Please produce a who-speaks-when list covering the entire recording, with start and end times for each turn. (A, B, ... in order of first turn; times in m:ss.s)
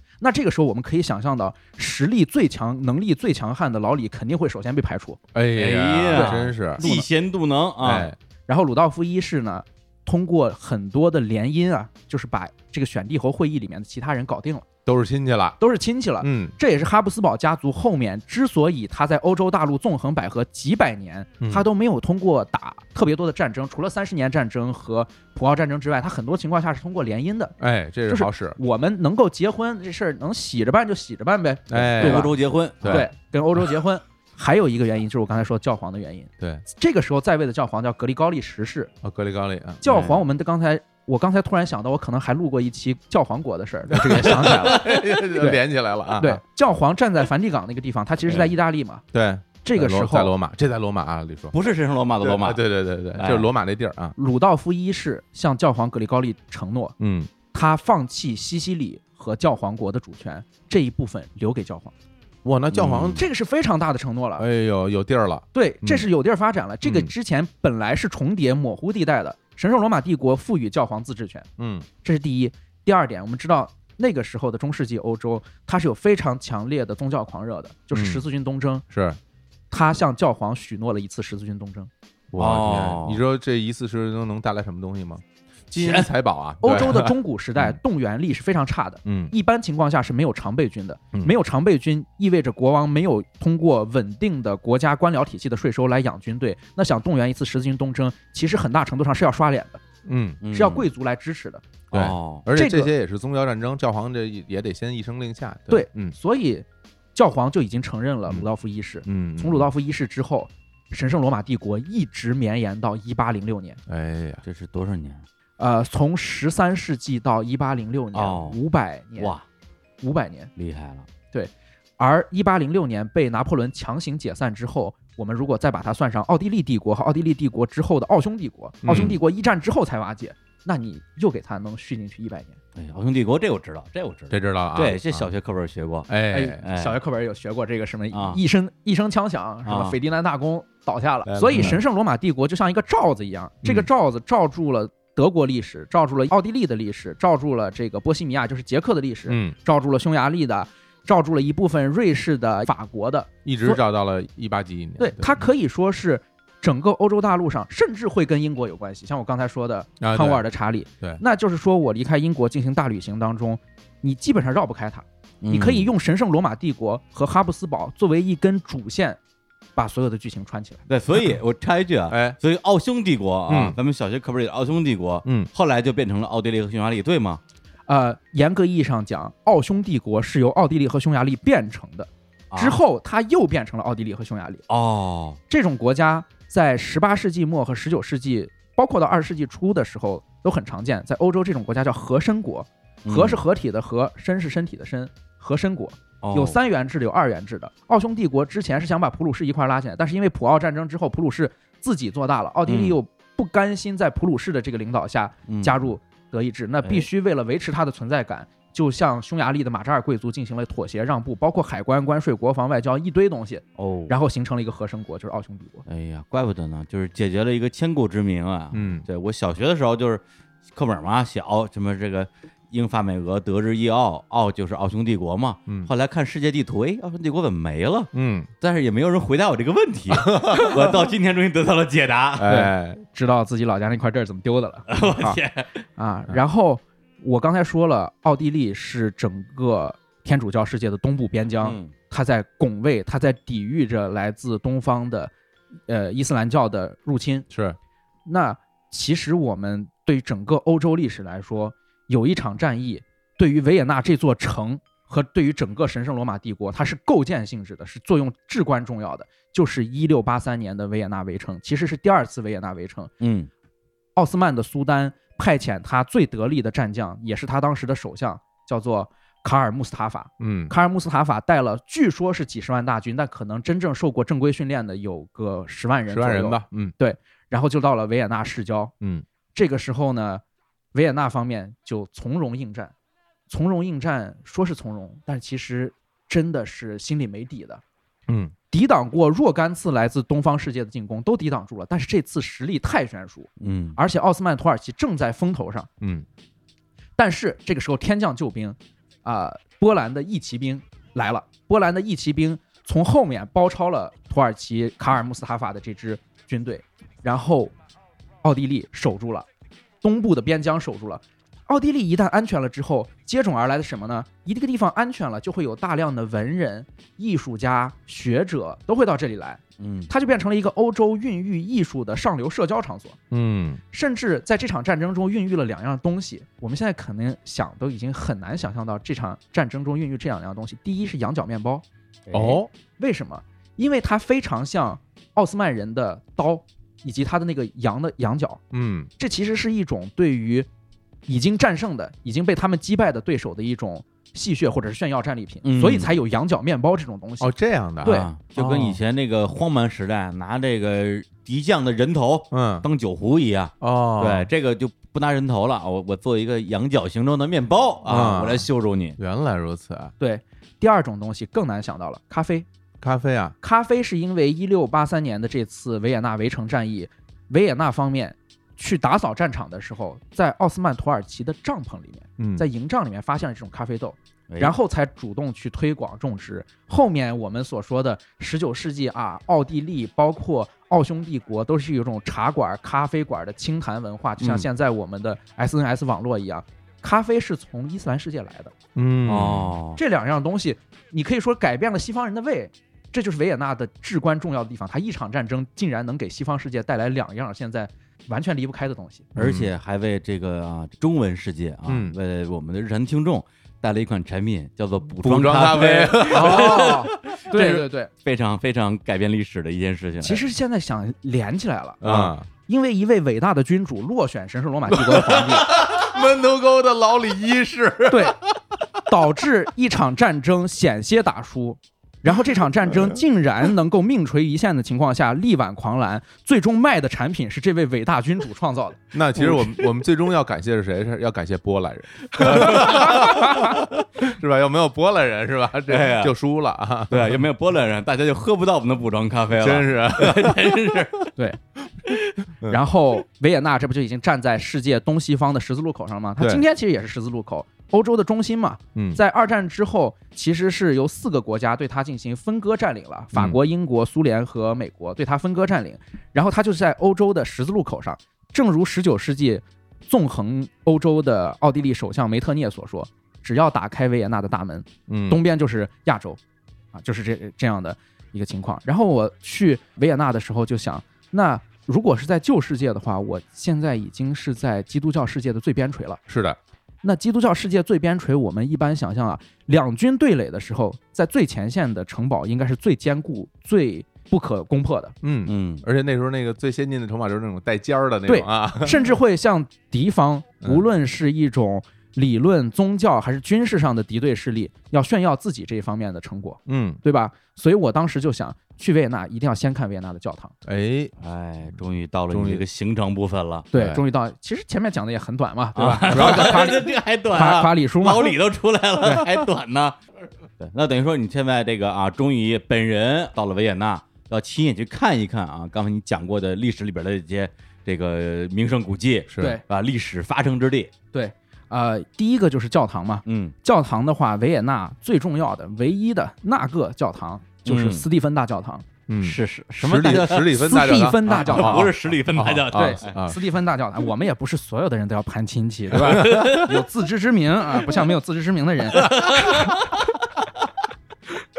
0:00.2-0:05.2 A
0:05.3-0:06.9 B
0:05.5-0:08.1 C
0:06.1-0:07.1 A
0:07.8-0:08.2 B
0:08.5-0:14.7 A
0:14.9-0:15.6 B
0:15.6-0:27.6 A
0:16.2-0:16.6 B
0:21.4-0:21.6 B
0:27.6-0:28.6 B
0:28.1-0:38.9 A
0:31.7-0:33.1 B
0:32.0-0:33.1 C
0:39.0-0:39.8 B
0:39.8-0:45.6 A
0:39.9-0:40.2 C
0:43.9-0:46.4 B
0:46.2-0:49.0 A
0:49.1-0:51.6 B
0:49.6-0:50.3 A
0:51.5-0:52.6 C
0:52.2-0:54.2 B
0:53.2-0:53.5 C
0:54.2-0:56.9 A
0:57.0-0:57.3 B
0:57.5-1:01.9 A
1:02.4-1:03.2 B
1:02.7-1:03.2 C
1:03.1-1:04.5 A
1:04.4-1:06.1 B
1:05.5-1:11.5 A
1:06.8-1:07.1 B
1:11.6-1:11.9 B
1:12.0-1:18.8 A
1:17.9-1:18.2 B
1:18.9-1:19.2 B
1:19.7-1:21.9 A
1:22.3-1:27.8 B
1:22.4-1:23.2 C
1:25.8-1:26.1 C
1:26.6-1:39.8 A
1:29.0-1:29.3 B
1:40.0-1:40.4 B
1:40.4-1:40.9 C
1:40.5-1:41.6 A
1:41.9-1:42.5 C
1:41.9-1:46.1 B
1:42.6-1:42.9 A
1:45.7-1:53.8 A
1:49.0-1:49.7 B
1:53.9-1:54.4 B
1:54.4-1:55.3 C
1:55.6-1:59.3 A
1:58.1-1:58.6 C
1:59.2-1:59.4 C
2:00.0-2:00.5 A
2:00.6-2:01.1 C
2:01.3-2:12.6 A
2:08.8-2:09.2 B
2:08.9-2:09.1 C
2:12.8-2:16.1 C
2:14.3-2:15.3 B
2:16.1-2:16.6 B
2:16.3-2:33.8 A
2:16.6-2:17.0 C
2:18.1-2:18.4 C
2:19.6-2:20.0 C
2:21.3-2:21.8 B
2:29.3-2:29.6 B
2:33.4-2:35.4 B
2:35.0-2:49.2 A
2:40.0-2:40.4 B
2:45.4-2:45.9 C
2:49.8-2:50.8 A
2:50.9-2:57.4 C
2:52.1-2:52.4 B
2:53.5-2:53.8 B
2:55.2-2:55.5 B
2:57.9-3:04.6 A
3:02.5-3:02.8 C
3:04.7-3:05.4 C
3:05.5-3:35.8 A
3:13.0-3:13.4 C
3:16.2-3:16.6 C
3:22.7-3:23.0 C
3:25.5-3:25.9 C
3:33.8-3:34.1 C
3:35.9-3:52.6 C
3:38.7-3:39.0 B
3:48.1-3:48.5 B
3:50.1-3:51.1 B
3:52.4-3:53.0 B
3:52.5-3:55.4 A
3:54.9-3:55.8 C
3:56.0-4:05.3 A
4:01.6-4:01.9 C
4:05.9-4:07.5 A
4:07.5-4:07.8 B
4:08.3-4:23.1 A
4:23.2-4:23.5 C
4:24.2-4:38.9 A
4:30.4-4:30.7 B
4:36.1-4:36.9 B
4:39.5-4:40.4 A
4:40.9-4:42.9 A
4:43.5-4:47.8 A
4:48.3-4:48.5 B
4:48.7-4:55.9 A
4:53.6-4:54.0 C
4:56.0-4:56.3 B
4:57.2-5:07.7 A
5:08.4-5:09.5 A
5:10.0-5:23.2 A
5:19.8-5:20.1 C
5:23.3-5:23.8 B
5:23.9-5:31.8 A
5:32.3-5:32.6 C
5:32.3-5:32.7 B
5:33.0-5:38.6 A
5:38.7-5:39.1 B
5:39.2-5:40.7 A
5:41.3-5:47.5 A
5:45.6-5:46.1 C
5:47.4-5:49.0 B
5:48.0-5:59.2 C
5:52.5-5:52.9 B
5:53.8-5:54.5 B
5:58.1-6:00.1 B
6:00.2-6:02.6 A
6:03.0-6:03.6 B
6:03.6-6:28.7 A
6:12.4-6:12.6 B
6:14.5-6:14.8 C
6:24.4-6:24.7 C
6:28.9-6:29.8 B
6:29.3-6:30.0 C
6:30.0-6:39.3 A
6:39.4-6:39.7 B
6:39.4-6:50.4 C
6:41.9-6:42.1 B
6:45.2-6:47.0 B
6:46.3-6:48.1 A
6:50.2-6:55.7 A
6:52.0-6:52.5 B
6:52.0-6:52.3 C
6:54.9-6:58.6 B
6:58.1-6:58.4 A
6:59.1-7:09.0 A
7:02.9-7:03.1 B
7:09.1-7:17.4 B
7:12.4-7:13.4 C
7:12.7-7:13.6 A
7:15.9-7:16.3 C
7:17.1-7:21.3 C
7:19.6-7:20.9 B
7:22.7-7:46.4 A
7:26.4-7:26.6 B
7:28.9-7:29.2 B
7:33.3-7:33.6 B
7:45.1-7:45.4 B
7:46.9-7:56.2 A
7:56.3-7:56.6 B
7:57.0-8:05.1 A
8:05.2-8:09.2 B
8:05.5-8:05.8 C
8:08.3-8:20.5 A
8:16.7-8:17.0 B
8:20.6-8:21.1 B
8:21.2-8:23.8 C
8:22.3-8:22.6 B
8:23.7-8:28.4 A
8:25.8-8:30.0 C
8:26.1-8:26.8 B
8:30.6-8:40.9 C
8:39.3-8:39.6 B
8:41.1-8:48.8 A
8:43.3-8:43.5 C
8:47.6-8:48.0 C
8:49.1-8:53.4 B
8:49.2-8:50.6 C
8:50.5-8:51.9 A
8:51.3-8:53.2 C
8:52.7-8:59.2 A
8:56.1-8:56.6 B
8:56.1-8:56.7 C
8:59.0-8:59.8 C